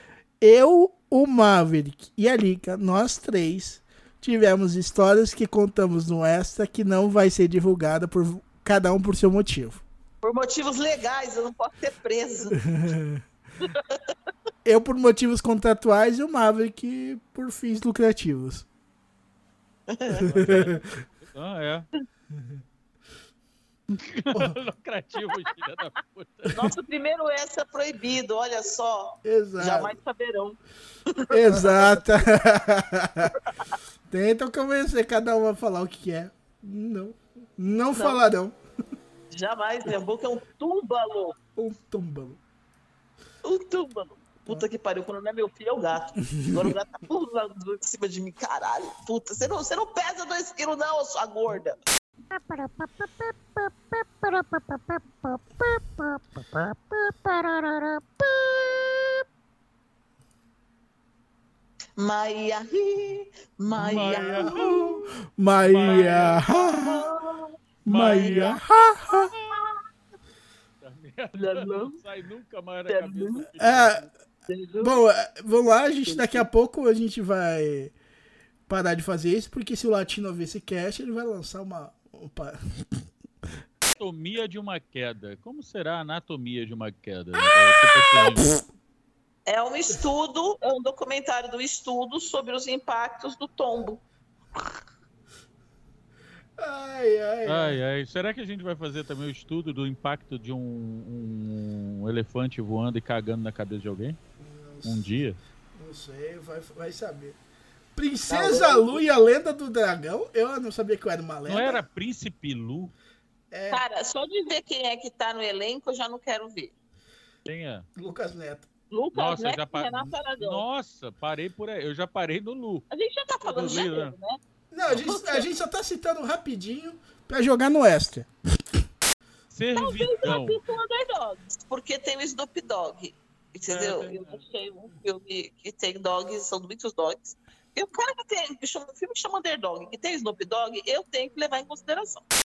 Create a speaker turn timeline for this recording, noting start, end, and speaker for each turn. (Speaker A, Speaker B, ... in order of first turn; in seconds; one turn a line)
Speaker A: 0.4-9.8
Speaker B: 10.2-12.6
Speaker A: 12.9-13.2
Speaker B: 13.6-14.0
Speaker A: 14.6-18.7
Speaker B: 19.9-20.4
Speaker C: 20.2-21.9
Speaker A: 20.2-20.9
Speaker C: 24.0-26.7
Speaker B: 26.5-30.6
Speaker A: 29.2-29.9
Speaker B: 31.1-32.1
Speaker A: 31.3-33.3
Speaker B: 33.3-33.7
Speaker A: 34.1-38.6
Speaker B: 37.9-38.2
Speaker B: 39.3-41.4
Speaker A: 41.6-42.4
Speaker B: 43.4-51.8
Speaker C: 52.5-54.9
Speaker C: 56.4-58.0
Speaker B: 62.0-65.0
Speaker C: 63.8-64.7
Speaker A: 64.0-67.1
Speaker C: 65.6-66.7
Speaker B: 65.8-68.6
Speaker C: 67.8-68.6
Speaker A: 67.9-69.3
Speaker C: 69.2-69.6
Speaker C: 70.8-74.1
Speaker B: 71.3-72.0
Speaker B: 72.9-73.5
Speaker A: 73.5-74.1
Speaker B: 74.5-75.0
Speaker A: 74.8-77.9
Speaker B: 76.1-76.5
Speaker A: 78.7-82.6
Speaker C: 84.0-88.5
Speaker B: 89.5-94.0
Speaker A: 96.6-97.8
Speaker C: 97.5-104.2
Speaker A: 104.4-105.1
Speaker C: 104.8-105.4
Speaker A: 105.8-107.4
Speaker A: 108.0-111.8
Speaker B: 108.3-109.0
Speaker C: 111.5-112.9
Speaker A: 113.5-113.8
Speaker B: 113.7-116.7
Speaker C: 117.5-117.9
Speaker A: 118.0-118.7
Speaker B: 118.9-120.6
Speaker C: 119.1-122.8
Speaker B: 122.9-125.5
Speaker C: 123.4-124.2
Speaker A: 124.7-128.3
Speaker C: 129.5-130.6
Speaker B: 129.8-142.2
Speaker C: 133.7-134.4